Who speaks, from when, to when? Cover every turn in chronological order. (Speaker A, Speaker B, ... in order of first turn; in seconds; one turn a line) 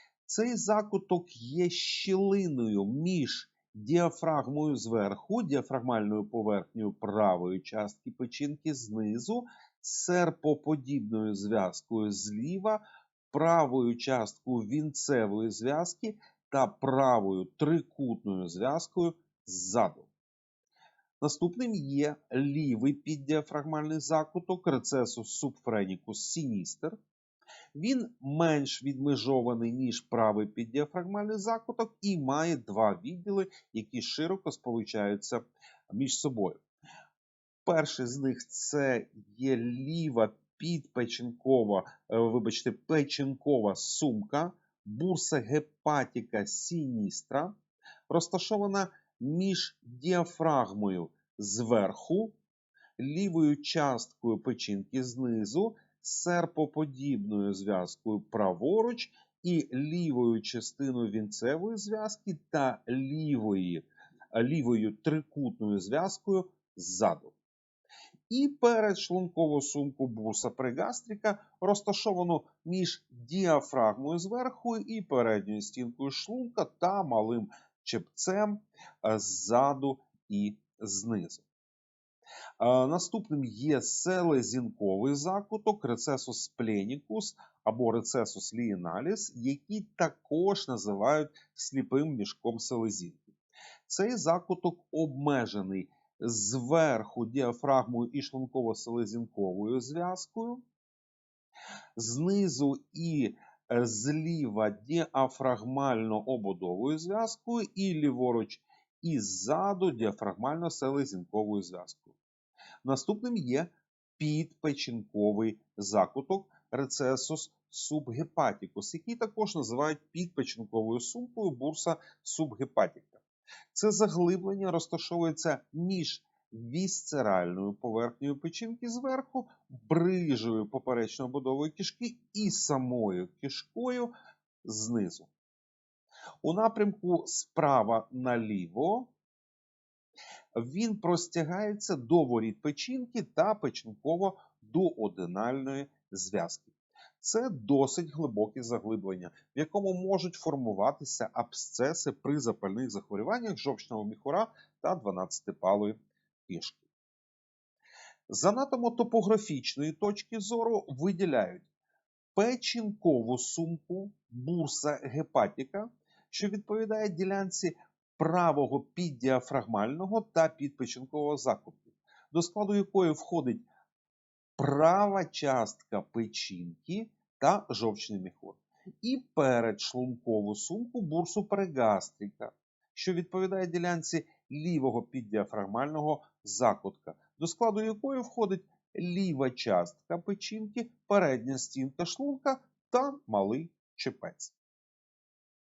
Speaker A: 0.2-20.1
Speaker A: 21.2-27.0
Speaker A: 27.8-36.6
Speaker A: 37.7-47.5
Speaker A: 48.1-52.4
Speaker A: 53.0-67.3
Speaker A: 68.3-81.5
Speaker A: 82.6-93.4
Speaker A: 93.9-100.6
Speaker A: 102.0-112.2
Speaker A: 112.8-123.2
Speaker A: 123.7-134.1
Speaker A: 134.6-135.3
Speaker A: 136.4-139.1
Speaker A: 140.6-156.9
Speaker A: 158.3-161.7
Speaker A: 162.3-173.7
Speaker A: 174.6-194.6